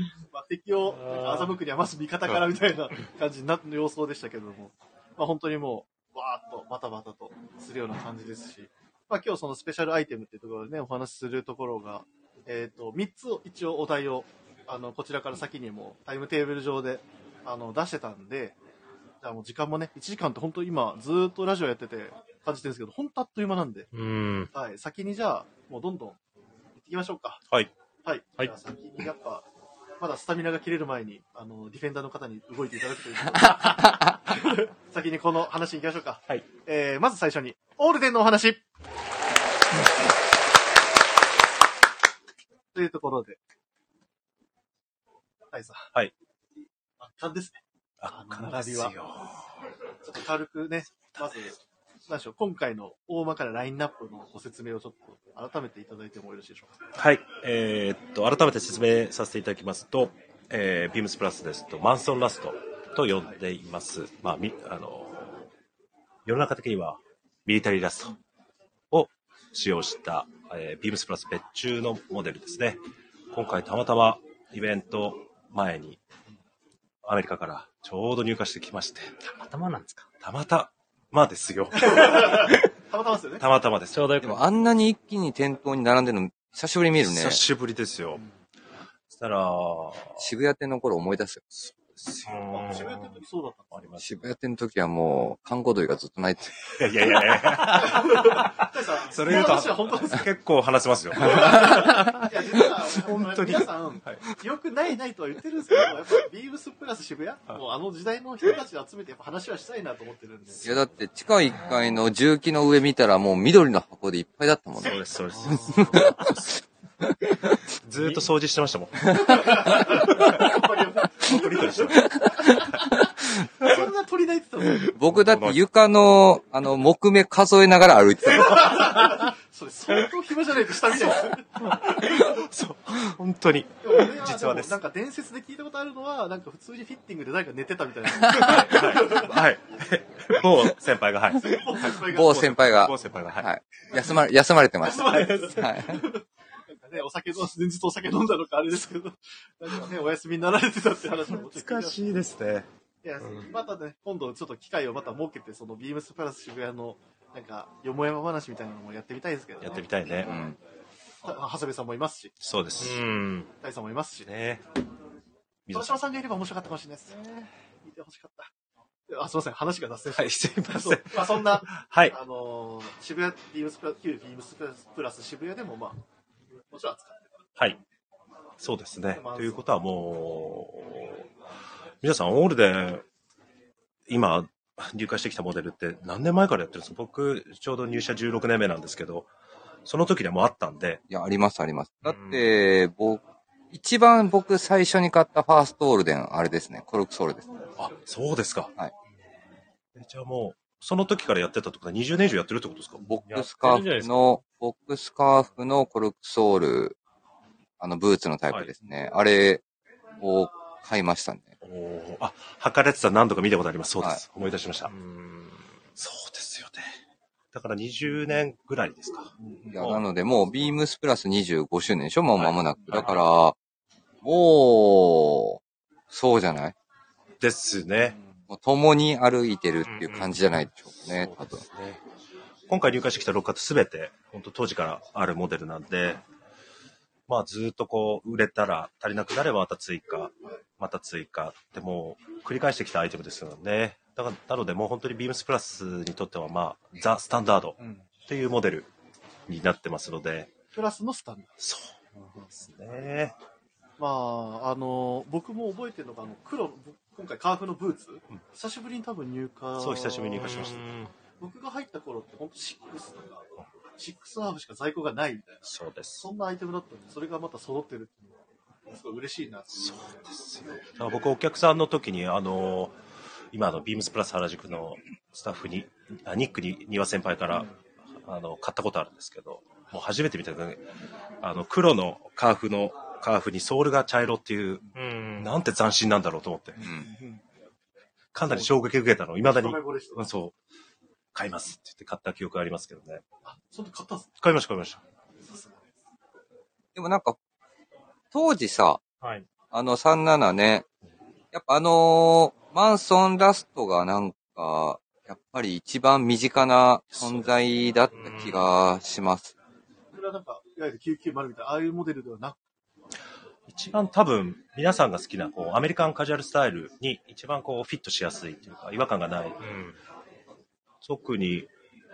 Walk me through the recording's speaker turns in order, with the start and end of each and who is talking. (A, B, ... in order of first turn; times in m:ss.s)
0:00.3-0:18.6 A
0:00.9-0:01.6 B
0:19.2-0:23.9 A
0:23.9-0:24.5 B
0:24.5-0:26.2 A
0:26.8-0:27.4 A
0:28.0-0:29.4 A
0:30.0-0:38.6 A
0:42.7-0:43.4 A
0:45.5-0:45.9 A
0:47.0-0:49.0 A
0:48.0-0:49.4 C
0:50.0-0:51.6 A
0:51.1-0:51.5 C
0:52.1-0:56.8 A
0:57.0-1:05.4 C
1:06.3-1:08.2 C
1:08.9-1:12.8 C
1:13.3-1:16.0 C
1:17.0-1:19.1 C
1:19.3-1:20.1 B
1:20.2-1:22.7 C
1:21.8-1:23.4 A
1:23.4-1:24.0 C
1:23.9-1:24.4 B
1:24.2-1:27.4 D
1:27.0-1:28.2 C
1:29.1-1:30.2 C
1:30.2-1:31.4 D
1:31.5-1:32.8 C
1:32.3-1:33.1 B
1:32.5-1:33.9 A
1:33.7-1:34.2 C
1:34.0-1:36.6 D
1:36.7-1:44.3 C
1:37.8-1:40.3 A
1:41.2-1:50.7 A
1:50.6-1:55.0 D
1:54.8-1:56.6 C
1:55.3-1:56.1 A
1:55.8-1:56.2 D
1:57.8-2:00.6 C
1:59.1-2:03.0 A
2:01.2-2:02.8 C
2:03.6-2:05.0 A
2:04.9-2:08.9 D
2:05.1-2:05.6 C
2:08.3-2:12.4 A
2:11.6-2:14.8 C
2:13.8-2:19.4 A
2:18.3-2:23.5 C
2:21.4-2:22.8 A
2:22.1-2:26.0 D
2:24.8-2:32.0 A
2:31.3-2:32.7 C
2:33.0-2:40.3 A
2:39.6-2:40.4 C
2:40.2-2:40.6 D
2:41.2-2:42.3 A
2:42.4-2:43.0 C
2:42.8-2:43.5 B
2:43.6-2:44.3 A
2:44.2-2:44.6 C
2:45.7-2:46.0 C
2:45.7-2:48.5 A
2:49.1-2:56.0 A
2:50.1-2:52.2 C
2:56.7-2:57.4 A
2:58.6-3:01.2 C
2:59.1-2:59.6 A
3:02.0-3:03.0 C
3:04.1-3:09.3 C
3:09.9-3:11.0 C
3:11.1-3:17.5 D
3:12.0-3:12.4 B
3:17.8-3:18.7 C
3:20.0-3:23.0 C
3:23.0-3:27.0 D
3:23.3-3:24.2 B
3:27.8-3:29.6 D
3:30.2-3:31.5 D
3:31.6-3:34.9 C
3:34.9-3:35.6 B
3:36.0-3:36.8 C
3:37.5-3:40.0 C
3:39.4-3:39.8 A
3:39.7-3:43.6 D
3:42.4-3:43.1 C
3:42.9-3:43.2 B
3:44.2-3:45.6 D
3:46.1-3:46.8 D
3:47.4-3:48.2 C
3:48.0-3:48.3 A
3:48.5-3:51.6 D
3:49.8-3:50.3 B
3:51.0-3:52.0 C
3:52.7-3:56.2 C
3:57.3-4:08.9 C
4:07.8-4:08.1 A
4:09.5-4:10.5 C
4:10.7-4:11.5 A
4:11.6-4:12.0 C
4:12.2-4:12.5 A
4:12.6-4:13.4 C
4:14.0-4:20.6 A
4:19.8-4:20.8 C
4:20.4-4:21.1 B
4:21.4-4:25.7 A
4:25.6-4:26.3 C
4:26.2-4:30.1 A
4:29.7-4:33.0 C
4:33.5-4:37.7 C
4:38.2-4:40.8 C
4:41.4-4:44.9 C
4:45.0-4:45.5 B
4:45.4-4:46.9 C
4:46.8-4:47.4 A
4:48.3-4:50.6 C
4:48.4-4:48.7 A
4:49.4-4:50.3 A
4:51.3-4:53.2 C
4:53.4-4:54.3 A
4:54.4-4:55.0 C
4:55.5-4:55.8 A
4:57.0-4:57.4 D
4:58.3-4:59.0 D
4:59.7-5:00.8 D
5:01.5-5:09.5 D
5:07.1-5:07.5 C
5:08.1-5:08.7 B
5:10.1-5:12.6 A
5:13.7-5:19.6 C
5:19.6-5:20.0 B
5:21.0-5:21.7 C